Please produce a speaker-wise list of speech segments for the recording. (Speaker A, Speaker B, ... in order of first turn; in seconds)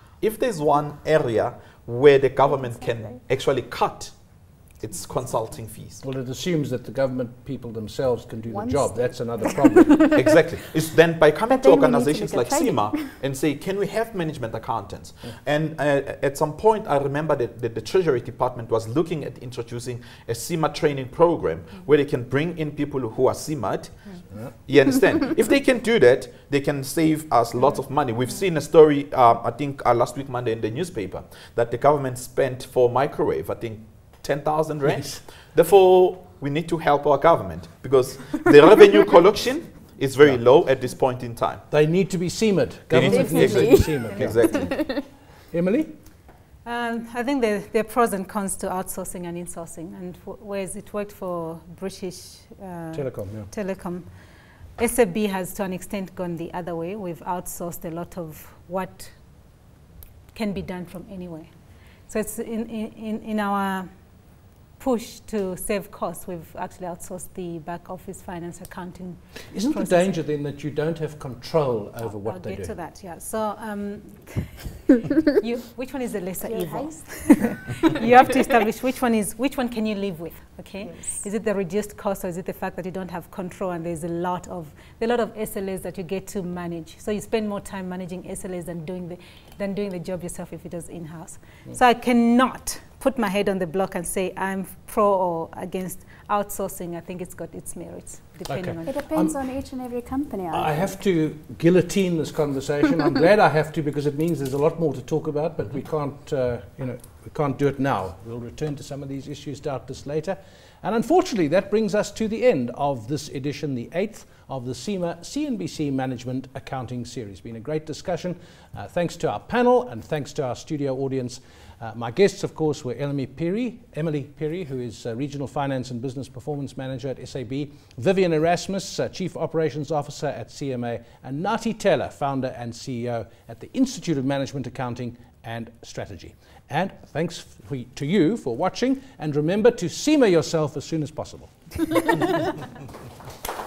Speaker A: 0.2-6.0, 10.1-41.6, 42.9-45.0
Speaker B: 2.8-3.2, 8.5-10.1, 11.5-13.1, 43.1-44.9, 76.4-78.5, 80.8-81.2, 98.8-101.0
Speaker C: 6.0-10.1, 34.9-35.2, 41.7-45.0, 45.5-45.9, 52.9-53.5, 69.5-72.7, 98.5-99.3, 100.5-142.4
Speaker D: 46.6-54.1, 54.8-59.1, 60.3-63.9, 64.8-70.2, 72.0-99.0